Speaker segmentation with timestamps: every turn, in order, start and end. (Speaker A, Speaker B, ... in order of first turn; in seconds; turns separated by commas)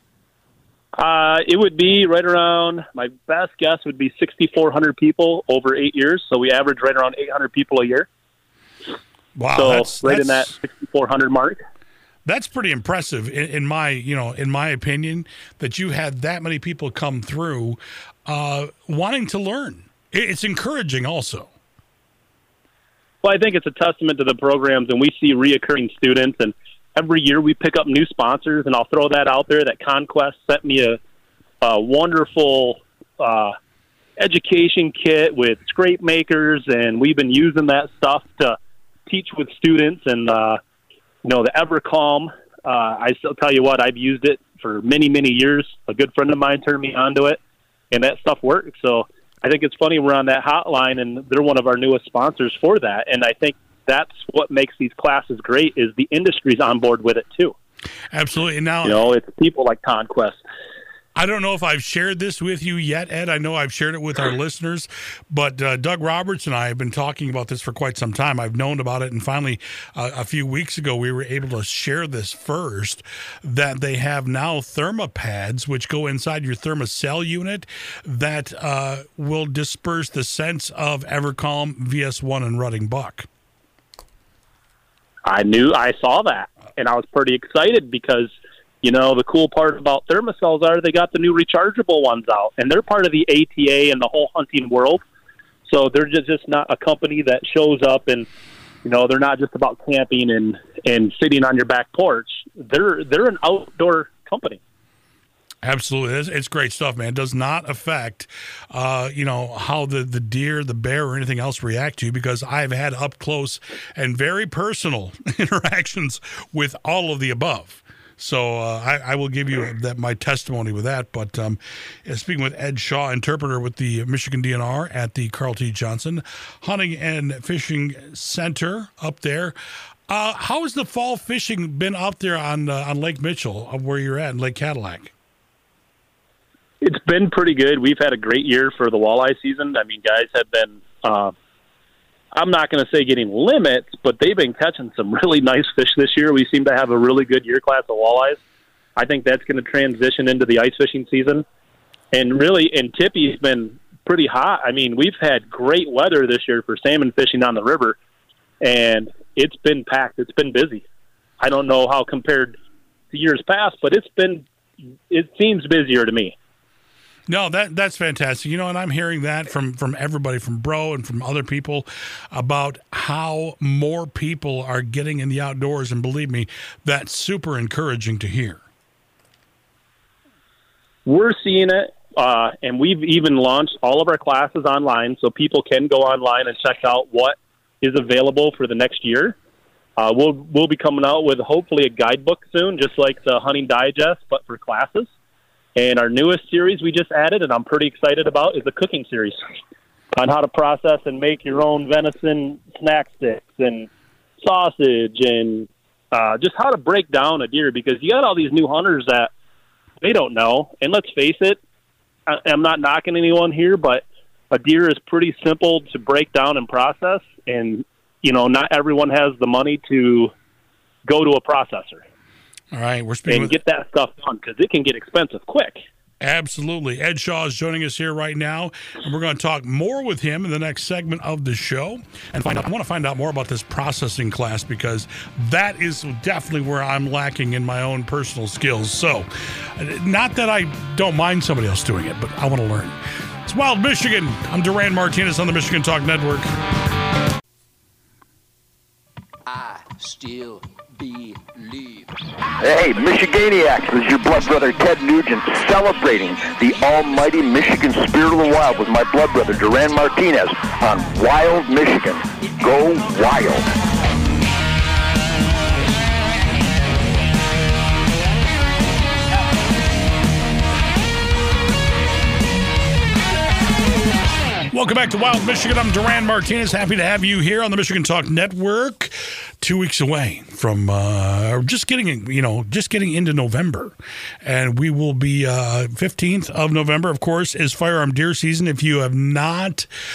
Speaker A: 1.0-8.1, Speaker B: 9.4-10.5, Speaker A: 9.6-11.6, Speaker B: 12.2-21.5, Speaker A: 23.2-31.0, Speaker A: 31.6-33.5, Speaker A: 34.2-38.6, Speaker A: 39.1-40.6, Speaker A: 41.2-47.4, Speaker A: 47.9-57.5, Speaker B: 58.1-59.0, Speaker A: 58.8-60.4, Speaker B: 61.1-83.3, Speaker A: 85.3-88.3, Speaker A: 88.8-95.0, Speaker A: 95.7-98.3, Speaker A: 98.8-104.6, Speaker B: 105.6-129.6, Speaker B: 130.1-135.1, Speaker A: 136.8-141.3, Speaker A: 142.3-148.4, Speaker A: 148.9-151.4, Speaker A: 152.1-158.0, Speaker A: 158.6-160.8, Speaker A: 161.4-162.6, Speaker A: 163.1-164.4, Speaker A: 165.1-166.3, Speaker B: 167.3-178.6, Speaker A: 181.1-189.4, Speaker A: 190.0-195.1, Speaker A: 195.8-199.4, Speaker A: 200.1-203.9, Speaker A: 204.4-209.3, Speaker A: 210.0-211.6, Speaker A: 212.3-220.3, Speaker A: 221.1-222.0, Speaker B: 222.7-223.6, Speaker A: 223.3-225.8, Speaker B: 226.2-246.5, Speaker C: 252.6-263.6, Speaker B: 274.7-289.9